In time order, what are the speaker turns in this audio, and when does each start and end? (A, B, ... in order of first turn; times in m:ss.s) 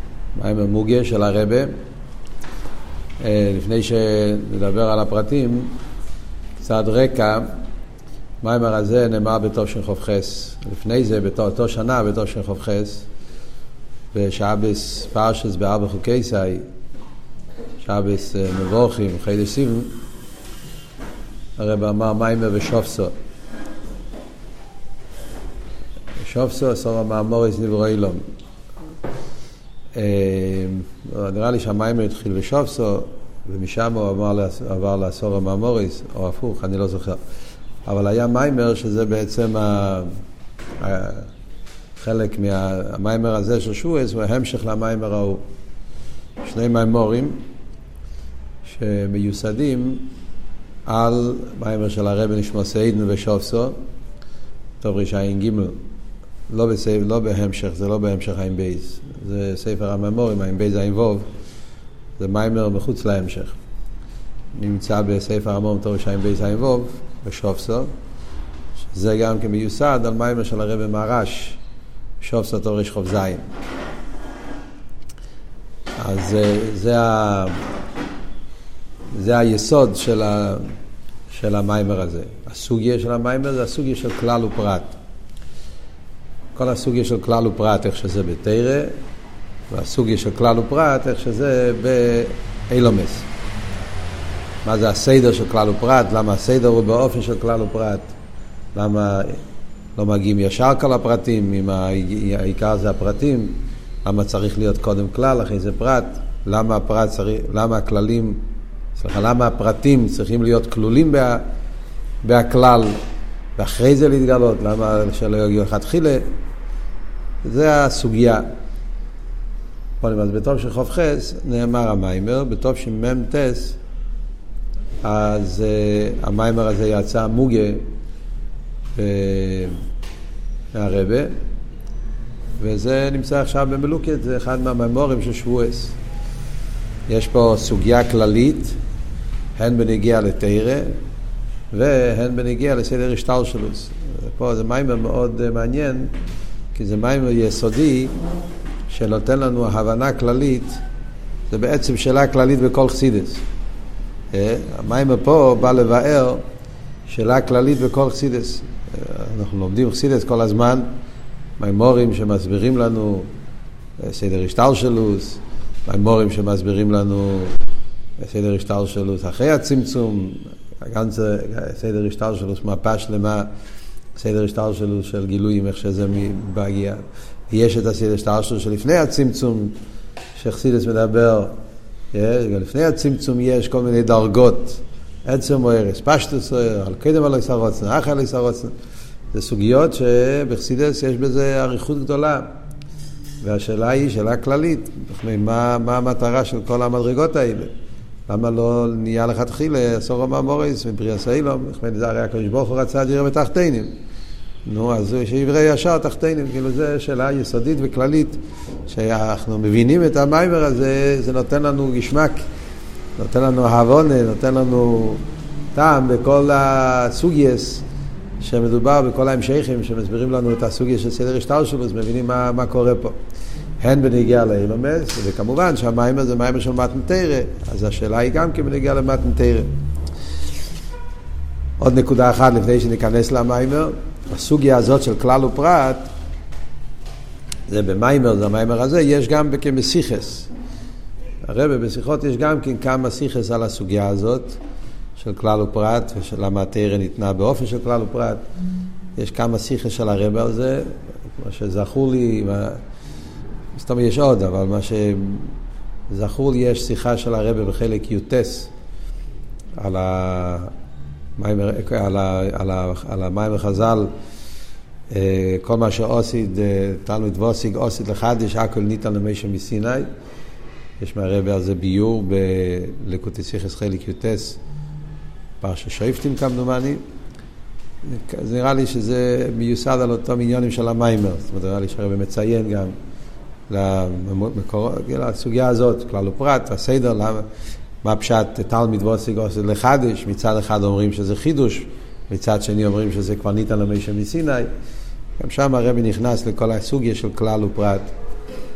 0:00.3-0:01.7 A
0:03.2-0:05.7 A
0:06.6-0:07.5 A
0:08.4-0:13.0 A
0:14.1-0:16.6 A
0:17.8-0:19.9 A
0:21.6-0:23.1 A
0:26.2-0:28.2 A
0:30.0-0:37.2 A
0:37.9-0:40.1 A
0:40.8-0:41.3 A
0:42.0-0:45.4 A
0:46.4-0:47.4 A
0:48.6-0:50.0 A
0:50.9-0:53.8 A
0:54.8-0:55.8 A
0:56.5-1:01.2 A
1:02.2-1:03.5 A
1:04.5-1:07.9 A
1:08.9-1:11.6 A
1:12.2-1:13.4 A
1:16.0-1:17.6 A
1:19.1-1:20.6 A
1:21.3-1:24.9 A
1:26.6-1:28.9 A
1:29.7-1:33.3 A
1:34.6-1:38.1 A
1:38.7-1:39.4 A
1:40.0-1:48.4 A
1:49.0-1:51.4 A
1:52.2-1:52.9 A
1:53.6-1:56.2 A
1:57.4-1:58.4 A
2:00.0-2:03.8 A
2:05.0-2:07.8 A
2:09.0-2:09.7 A
2:10.7-2:11.3 A
2:12.6-2:15.9 A
2:17.1-2:18.8 A
2:19.6-2:20.9 A
2:21.7-2:26.1 A
2:26.8-2:28.1 A
2:28.9-2:30.8 A
2:31.5-2:33.4 A
2:34.3-2:36.4 A
2:37.1-2:40.9 A
2:41.6-2:43.3 A
2:44.0-2:47.5 A
2:48.2-2:53.5 A
2:54.2-2:59.8 A
3:00.4-3:01.5 A
3:02.1-3:08.7 A
3:09.3-3:12.4 A
3:13.4-3:17.7 A
3:18.3-3:23.9 A
3:24.7-3:32.4 A
3:33.2-3:35.2 A
3:35.8-3:37.8 A
3:38.4-3:43.1 A
3:43.8-3:49.7 A
3:51.8-3:56.1 A
3:57.7-4:00.5 A
4:01.4-4:04.6 A
4:05.2-4:08.4 A
4:09.2-4:12.8 A
4:13.8-4:15.5 A
4:16.1-4:18.7 A
4:19.8-4:20.7 A
4:21.4-4:24.1 A
4:25.1-4:30.1 A
4:31.0-4:34.6 A
4:35.6-4:37.0 A
4:38.0-4:42.9 A
4:43.7-4:47.5 A
4:48.0-4:54.7 A
4:55.4-4:58.1 A